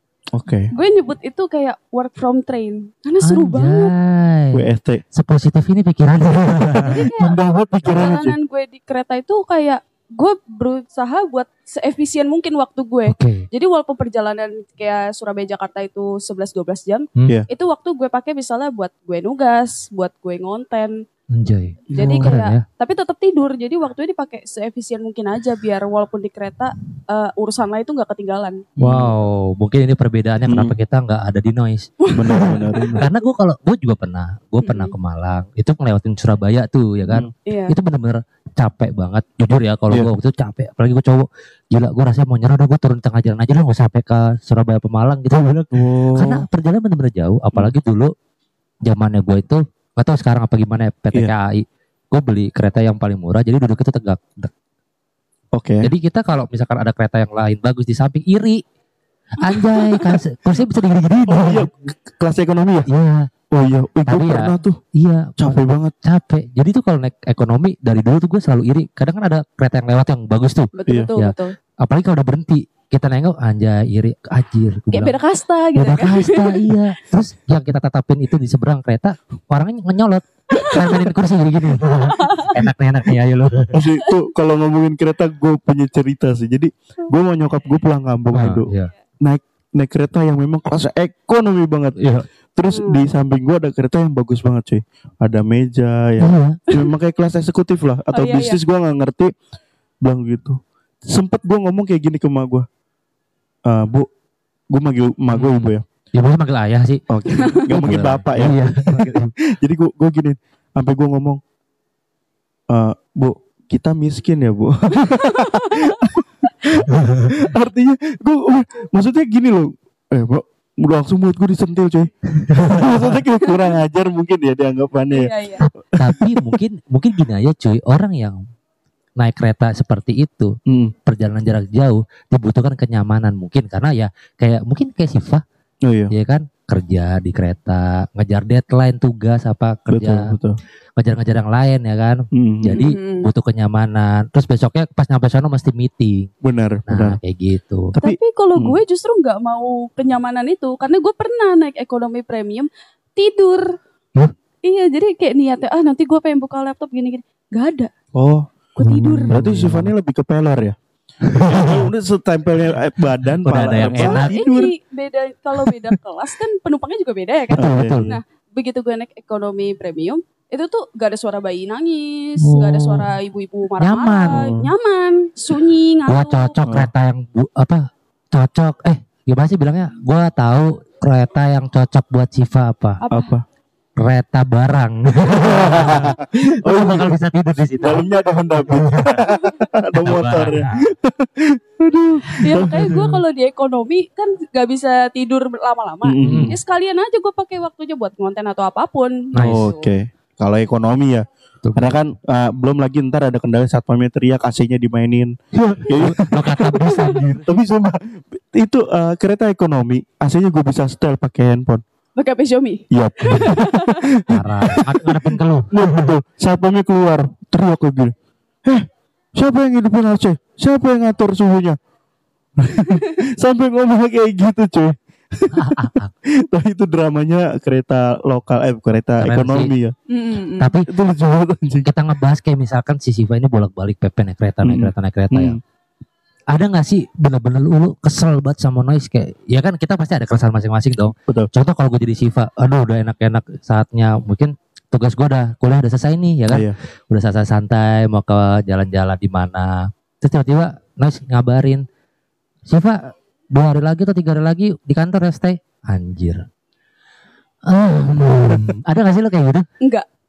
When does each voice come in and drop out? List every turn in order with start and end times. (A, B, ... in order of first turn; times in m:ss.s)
0:00.3-0:00.7 A
0:00.7-0:03.9 B
0:03.2-0:04.6 C
0:04.5-0:05.0 A
0:05.1-0:07.0 C
0:06.8-0:08.4 A
0:06.8-0:20.9 B
0:13.1-0:13.5 C
0:21.3-0:22.6 C
0:21.9-0:22.3 A
0:21.9-0:28.6 B
0:28.8-0:29.1 A
0:28.8-0:32.5 C
0:30.5-0:30.8 A
0:32.0-0:33.1 B
0:32.1-0:33.0 A
0:33.0-0:48.1 C
0:34.6-0:34.9 B
0:37.4-0:37.7 B
0:45.7-0:46.4 A
0:48.8-0:54.5 C
0:55.5-0:55.9 A
0:55.8-0:58.6 C
0:59.4-1:01.7 C
1:01.4-1:02.9 A
1:02.9-1:03.3 C
1:03.5-1:04.8 A
1:04.0-1:15.2 C
1:05.4-1:05.9 A
1:10.8-1:11.5 B
1:10.8-1:11.1 A
1:14.9-1:16.7 B
1:15.8-1:23.7 C
1:23.7-1:28.7 A
1:28.3-1:28.9 C
1:29.2-1:31.9 A
1:32.0-1:32.3 C
1:32.5-1:39.3 A
1:32.7-1:33.0 B
1:36.2-1:36.6 C
1:38.1-1:38.6 B
1:40.0-1:42.6 A
1:43.6-1:44.1 A
1:44.7-1:45.8 A
1:45.3-1:49.3 C
1:47.1-1:51.4 A
1:52.7-2:06.6 A
1:55.1-1:56.0 B
1:56.8-1:57.3 C
2:02.5-2:03.2 C
2:05.1-2:05.7 B
2:06.0-2:08.4 C
2:09.2-2:15.4 C
2:10.7-2:10.9 A
2:15.8-2:16.1 A
2:16.1-2:20.2 C
2:19.9-2:20.6 A
2:21.0-2:26.3 C
2:22.3-2:22.8 A
2:22.7-2:23.3 B
2:26.4-2:27.2 A
2:26.9-2:27.9 C
2:27.9-2:28.8 A
2:28.0-2:33.7 B
2:34.6-2:37.9 B
2:38.1-2:38.5 A
2:38.8-2:39.4 B
2:38.8-2:39.9 C
2:39.3-2:40.8 A
2:41.3-2:41.8 C
2:41.4-2:44.7 A
2:43.4-2:44.4 C
2:44.0-2:56.5 B
2:47.5-2:48.1 A
2:47.5-2:48.1 C
2:52.4-2:53.1 C
2:53.8-2:54.4 C
2:54.3-2:54.7 A
2:56.1-3:03.0 C
3:03.0-3:03.3 B
3:03.1-3:03.4 A
3:04.0-3:09.2 C
3:05.3-3:07.1 A
3:07.8-3:13.1 A
3:09.9-3:10.7 C
3:12.4-3:19.9 B
3:16.0-3:16.6 A
3:16.2-3:16.5 C
3:19.3-3:19.7 C
3:19.4-3:31.8 A
3:21.6-3:22.0 C
3:25.8-3:27.5 C
3:32.2-3:34.1 B
3:32.9-3:41.8 A
3:34.3-3:35.7 C
3:42.6-3:49.9 A
3:45.6-3:46.1 C
3:49.2-3:49.7 C
3:50.1-3:50.7 B
3:50.6-3:50.9 C
3:50.9-3:51.9 A
3:51.8-3:55.6 C
3:54.6-3:55.6 A
3:56.5-4:11.8 C
4:06.5-4:06.8 A
4:12.7-4:16.4 C
4:17.7-4:19.6 C
4:19.8-4:20.1 B